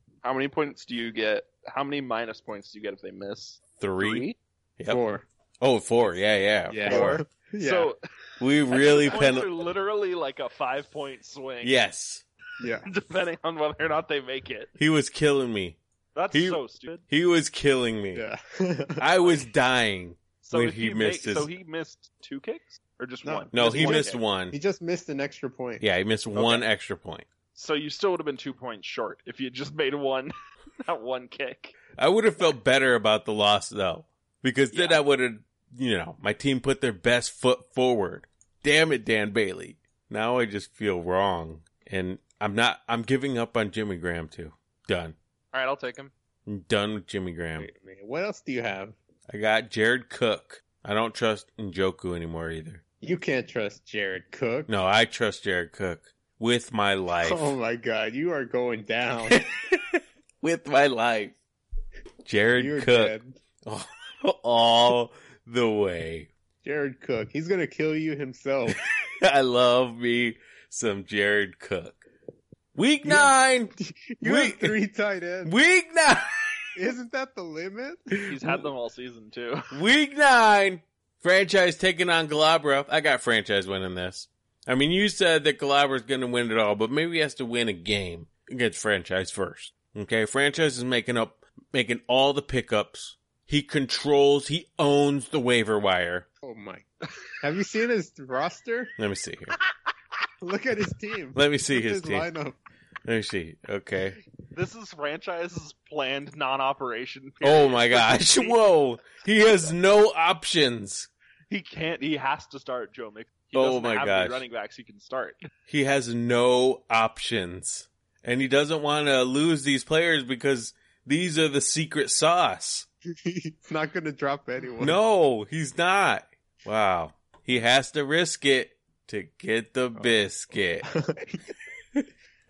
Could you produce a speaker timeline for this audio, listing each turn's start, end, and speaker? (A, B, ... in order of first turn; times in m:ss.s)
0:00.2-0:04.4 A
0:03.8-0:04.3 B
0:04.9-0:05.2 C
0:05.6-0:07.2 B
0:06.7-0:07.9 C
0:06.8-0:08.0 A
0:08.4-0:09.5 B
0:08.7-0:11.7 A
0:11.6-0:12.2 B
0:12.6-0:12.8 C
0:12.8-0:14.7 A
0:14.8-0:15.8 B
0:16.1-0:17.0 A
0:16.3-0:18.2 B
0:18.1-0:19.0 C
0:19.0-0:21.5 B
0:20.4-0:24.2 A
0:23.2-0:25.8 C
0:23.5-0:24.6 B
0:25.8-0:27.2 B
0:26.4-0:26.6 A
0:27.5-0:31.8 A
0:32.0-0:45.2 B
0:34.7-0:35.0 A
0:45.5-0:46.1 A
0:46.4-0:47.7 B
0:47.6-0:49.0 C
0:49.3-0:52.8 B
0:53.0-0:54.7 C
0:54.7-0:57.5 B
0:57.2-0:59.4 C
0:59.3-1:01.4 B
1:02.2-1:06.3 B
1:02.6-1:03.4 C
1:06.6-1:08.8 C
1:09.2-1:12.0 B
1:12.7-1:14.8 B
1:13.0-1:15.5 C
1:15.4-1:16.2 B
1:16.7-1:18.1 C
1:18.3-1:19.6 A
1:19.7-1:36.3 B
1:36.4-1:36.8 C
1:37.4-1:38.9 C
1:39.0-1:39.5 B
1:40.4-1:42.6 C
1:41.3-1:42.3 B
1:43.0-1:44.2 B
1:44.5-1:48.6 A
1:47.4-1:51.1 B
1:49.4-1:49.7 A
1:51.5-1:55.4 A
1:53.5-1:54.4 B
1:55.7-2:02.9 B
2:03.2-2:05.0 C
2:04.8-2:10.9 B
2:10.9-2:11.4 C